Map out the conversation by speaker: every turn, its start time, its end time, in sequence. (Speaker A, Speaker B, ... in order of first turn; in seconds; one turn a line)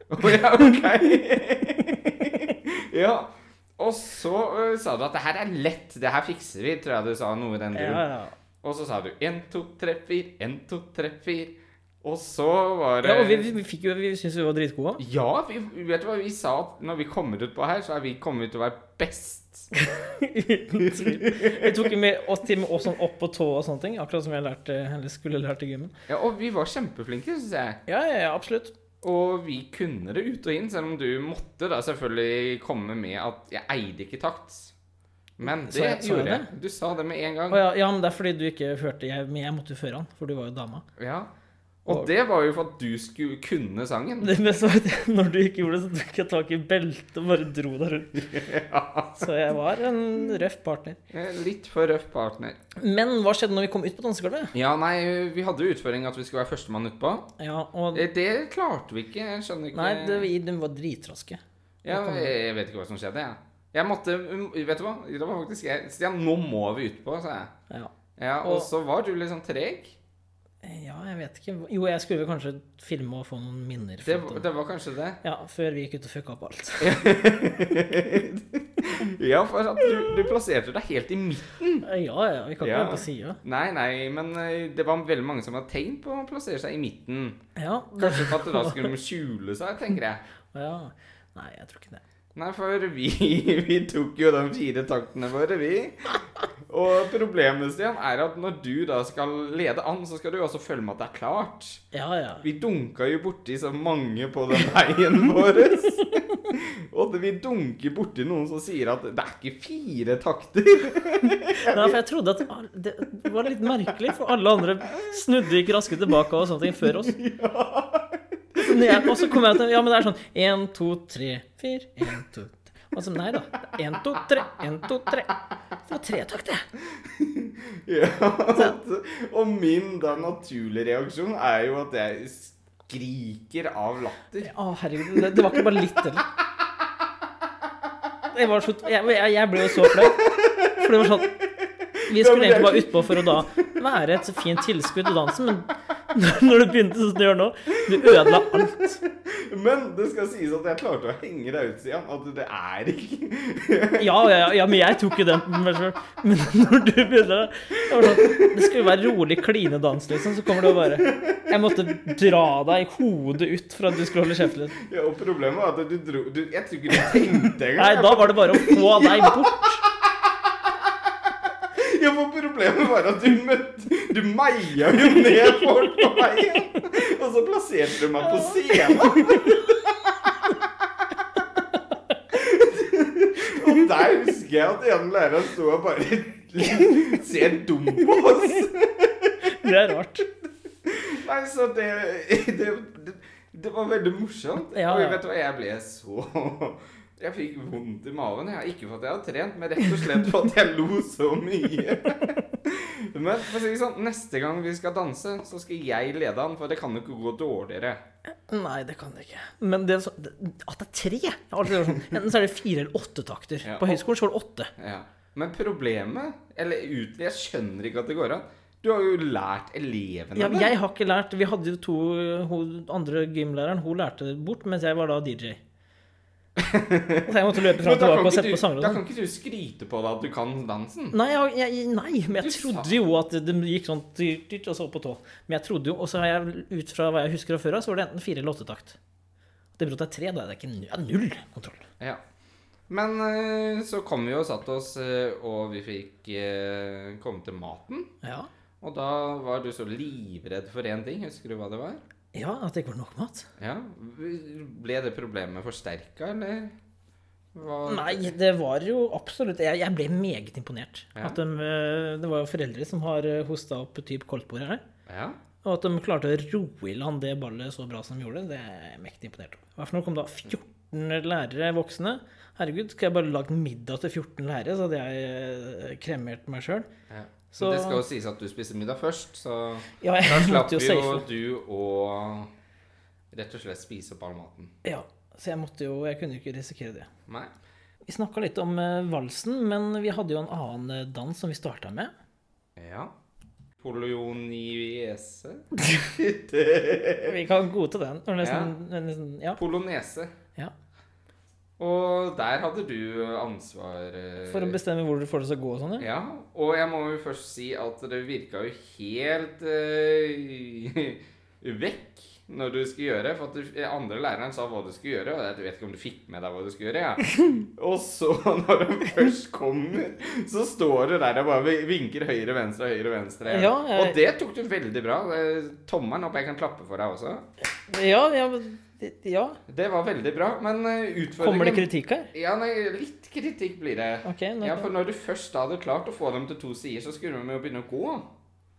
Speaker A: 0.1-8.0
Speaker B: 0.3-0.7
Speaker B: 1.9-2.6
Speaker B: 7.7-8.3
Speaker A: 8.6-13.5
Speaker B: 13.0-15.0
Speaker A: 15.0-19.7
Speaker B: 19.8-25.9
Speaker A: 20.8-21.9
Speaker A: 26.1-27.8
Speaker B: 27.9-28.7
Speaker A: 29.0-34.7
Speaker A: 35.4-37.6
Speaker B: 35.4-36.5
Speaker B: 37.5-40.9
Speaker A: 41.0-41.3
Speaker A: 41.9-44.3
Speaker B: 44.2-48.4
Speaker A: 48.1-49.3
Speaker B: 49.2-51.0
Speaker A: 51.1-52.6
Speaker B: 52.8-54.5
Speaker A: 54.5-57.3
Speaker B: 57.4-58.1
Speaker A: 57.9-60.3
Speaker B: 59.7-62.3
Speaker A: 61.8-67.5
Speaker A: 68.2-70.0
Speaker B: 68.4-68.7
Speaker B: 70.6-74.4
Speaker A: 74.0-75.2
Speaker B: 75.2-77.0
Speaker A: 76.8-81.9
Speaker B: 81.8-83.4
Speaker A: 82.6-87.4
Speaker B: 87.6-88.9
Speaker A: 88.0-90.2
Speaker B: 90.5-92.0
Speaker A: 92.3-101.8
Speaker B: 101.9-102.5
Speaker A: 102.4-112.0
Speaker B: 106.0-106.5
Speaker B: 111.2-117.2
Speaker A: 116.6-119.7
Speaker B: 118.6-126.7
Speaker A: 123.7-124.2
Speaker A: 126.9-138.1
Speaker B: 134.4-136.3
Speaker B: 138.3-141.3
Speaker A: 139.7-144.6
Speaker B: 142.1-149.0
Speaker A: 147.9-155.1
Speaker B: 154.0-164.8
Speaker A: 157.9-159.0
Speaker A: 160.4-162.2
Speaker A: 164.2-179.8
Speaker B: 167.8-169.8
Speaker B: 178.2-179.7
Speaker A: 180.5-181.2
Speaker A: 182.3-189.5
Speaker B: 188.1-188.7
Speaker B: 189.4-190.3
Speaker A: 190.8-208.0
Speaker B: 194.7-195.2
Speaker B: 208.3-214.7
Speaker A: 213.6-214.1
Speaker A: 214.8-220.7
Speaker B: 220.3-225.6
Speaker A: 226.6-231.2
Speaker B: 227.2-229.0
Speaker B: 231.1-239.0
Speaker A: 232.4-232.9
Speaker B: 239.8-241.9
Speaker A: 242.9-248.1
Speaker B: 248.2-248.5
Speaker A: 248.8-252.0
Speaker B: 252.3-253.5
Speaker A: 253.6-256.8
Speaker A: 257.5-258.4
Speaker B: 257.9-264.8
Speaker A: 265.1-265.4
Speaker B: 265.6-276.9
Speaker A: 277.1-282.5
Speaker B: 277.5-278.0
Speaker B: 280.0-281.3
Speaker A: 283.3-284.7
Speaker B: 284.8-287.1
Speaker A: 287.3-287.5
Speaker B: 288.1-292.1
Speaker A: 292.8-293.1
Speaker A: 293.8-297.4
Speaker B: 297.2-299.6
Speaker A: 298.4-298.7
Speaker A: 299.6-300.3
Speaker A: 301.8-304.8
Speaker B: 304.4-306.1
Speaker A: 306.0-327.4
Speaker B: 323.5-324.2
Speaker B: 327.9-329.6
Speaker A: 329.7-338.3
Speaker B: 331.4-332.3
Speaker B: 334.2-334.9